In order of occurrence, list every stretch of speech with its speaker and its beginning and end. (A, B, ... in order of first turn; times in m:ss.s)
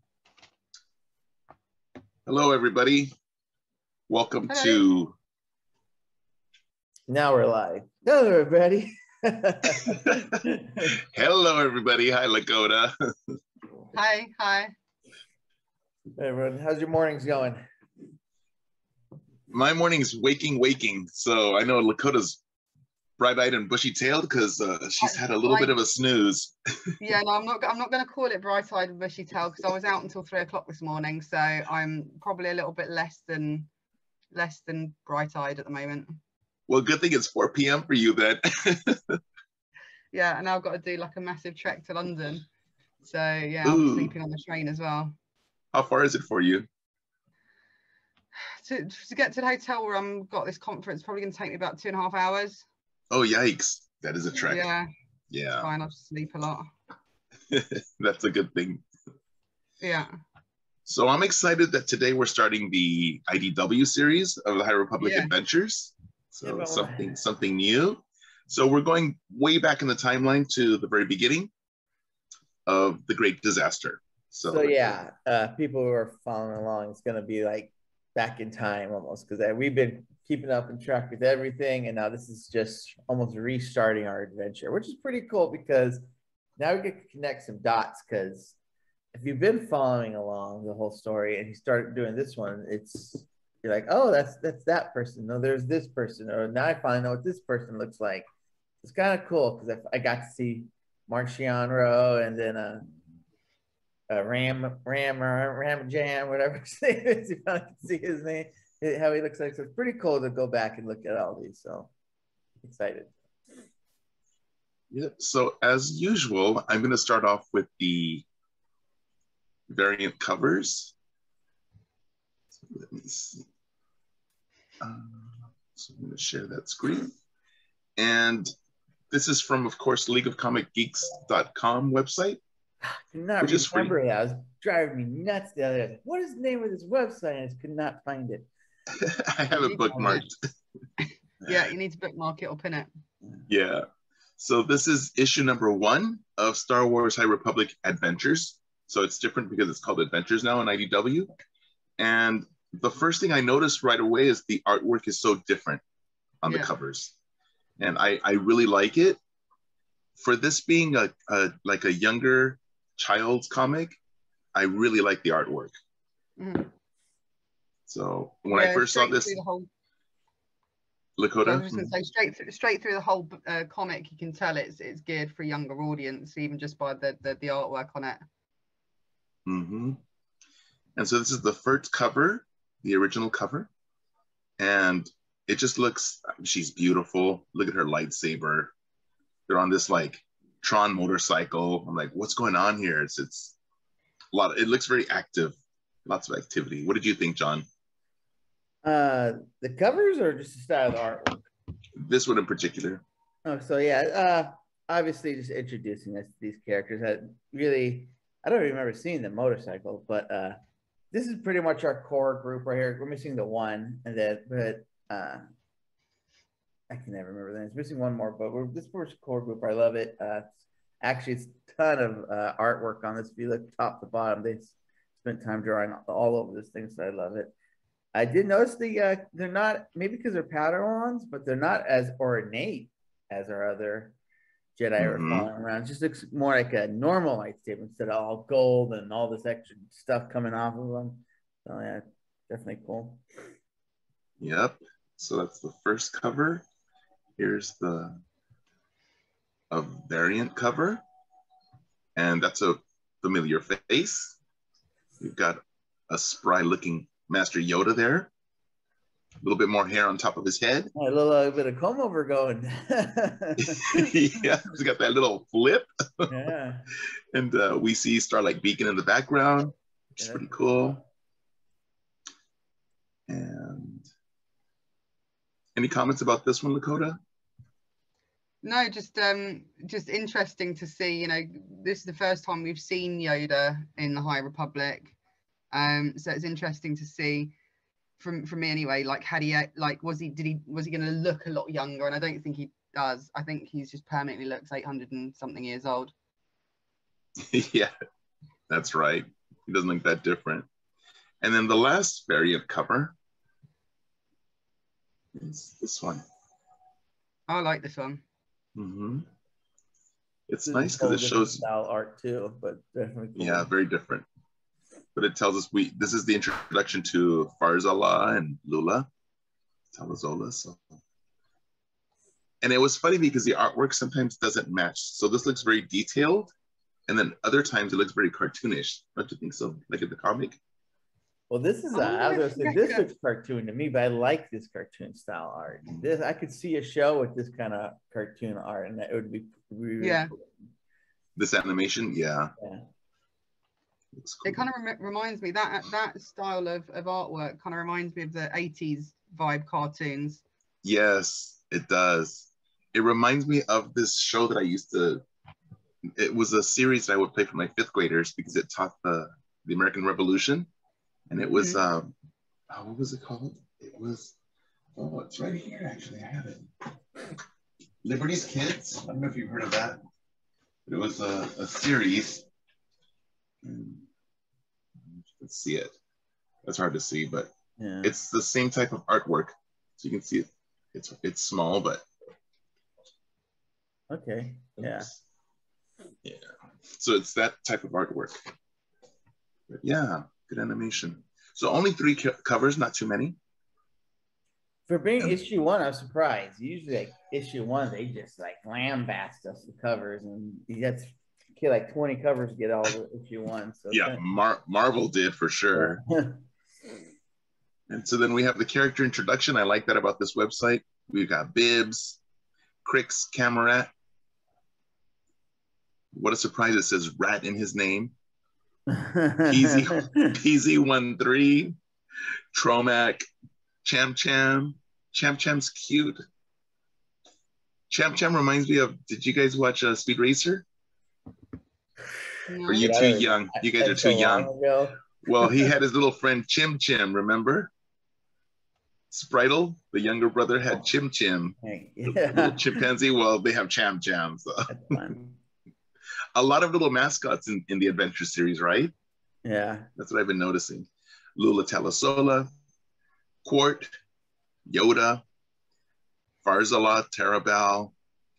0:02.2-0:03.1 A
0:04.1-0:05.1 A
0:04.5-0:04.8 B
0:07.1-0:10.9 C
0:09.7-0:13.3 A
0:13.9-0:14.7 B
0:16.2-0:17.6 C
0:19.5-0:22.4 A
0:23.2-0:27.0 A
0:25.0-0:25.8 B
0:27.0-0:33.7 B
0:34.3-0:36.2 B
0:36.7-0:39.2 A
0:40.1-0:42.5 B
0:43.0-0:45.2 B
0:43.6-0:44.1 A
0:45.7-0:46.7 A
0:48.4-0:52.6 B
0:53.1-0:54.7 A
0:54.4-0:54.9 B
0:55.3-0:55.7 A
0:55.6-0:56.7 B
0:57.5-0:58.8 A
0:59.8-1:00.1 B
1:00.8-1:11.5 A
1:05.0-1:05.3 B
1:06.4-1:07.1 C
1:12.6-1:14.9 A
1:14.5-1:26.0 C
1:26.6-1:28.6 C
1:29.1-1:38.3 C
1:38.8-1:42.8 C
1:44.1-1:51.9 C
1:52.6-1:53.2 C
1:54.9-1:58.2 A
1:59.7-2:00.9 A
2:02.5-2:03.5 A
2:04.8-2:07.1 A
2:08.0-2:08.5 A
2:09.1-2:12.4 A
2:12.8-2:18.5 C
2:13.4-2:13.9 A
2:18.9-2:20.3 A
2:19.5-2:20.2 B
2:19.9-2:20.2 C
2:21.4-2:22.9 B
2:23.5-2:23.8 A
2:24.4-2:31.3 A
2:32.0-2:35.8 A
2:36.4-2:37.1 A
2:36.4-2:36.7 B
2:37.8-2:39.2 A
2:40.2-2:44.0 A
2:44.5-2:45.7 A
2:46.4-2:46.7 B
2:47.9-2:49.4 A
2:48.5-2:49.7 B
2:51.2-2:51.9 A
2:51.4-2:58.2 B
2:59.4-3:00.0 A
3:01.0-3:03.7 A
3:04.6-3:08.7 A
3:09.5-3:13.6 A
3:14.3-3:17.6 A
3:18.8-3:21.4 C
3:22.0-3:23.0 A
3:23.4-3:30.6 C
3:31.1-3:35.4 C
3:36.9-3:40.4 C
3:41.0-3:47.5 C
3:48.1-3:54.2 C
3:54.8-4:03.2 C
3:55.0-3:55.5 A
4:04.4-4:06.6 A
4:07.4-4:08.2 A
4:09.7-4:11.0 A
4:12.2-4:14.4 A
4:15.2-4:18.3 A
4:19.4-4:20.9 A
4:20.9-4:24.1 C
4:23.6-4:26.3 A
4:26.3-4:26.9 C
4:27.3-4:31.0 A
4:30.2-4:30.5 C
4:33.3-4:34.1 A
4:35.7-4:37.2 A
4:38.6-4:45.1 B
4:45.7-4:47.5 B
4:48.2-4:56.1 B
4:57.4-4:57.9 A
4:58.7-5:00.7 A
5:01.4-5:03.1 A
5:05.3-5:06.2 A
5:07.5-5:08.2 B
5:08.8-5:09.3 A
5:10.5-5:11.6 A
5:10.7-5:13.7 C
5:13.4-5:14.2 A
5:15.1-5:19.1 A
5:19.9-5:20.9 A
5:22.6-5:26.5 A
5:27.1-5:30.6 A
5:31.5-5:40.5 C
5:31.9-5:33.1 B
5:40.0-5:40.3 B
5:41.4-5:42.5 A
5:42.6-5:42.8 C
5:44.1-5:44.7 A
5:44.4-5:50.4 B
5:50.8-5:55.2 A
5:56.2-6:00.7 A
6:01.3-6:02.1 A
6:02.7-6:04.3 A
6:05.0-6:06.7 A
6:08.0-6:10.0 A
6:10.9-6:12.4 A
6:13.6-6:14.0 A
6:15.1-6:15.9 A
6:16.6-6:17.5 A
6:17.8-6:18.1 C
6:18.0-6:22.0 A
6:24.1-6:25.1 C
6:24.8-6:25.2 A
6:26.2-6:28.4 A
6:29.7-6:33.4 A
6:34.9-6:44.2 C
6:43.9-6:46.0 A
6:45.7-6:46.4 C
6:47.9-6:52.2 A
6:52.8-6:53.9 A
6:56.1-6:58.1 A
6:58.9-7:00.4 C
6:59.5-7:01.8 A
7:02.5-7:03.3 A
7:03.8-7:06.2 A
7:07.9-7:10.6 A
7:12.5-7:12.9 B
7:12.7-7:14.5 A
7:12.7-7:15.7 C
7:15.2-7:17.7 A
7:19.1-7:24.9 A
7:21.6-7:22.8 C
7:24.7-7:25.4 C
7:26.3-7:28.9 A
7:29.4-7:29.9 C
7:30.0-7:32.5 A
7:33.4-7:33.9 A
7:34.7-7:35.2 A
7:36.4-7:37.9 A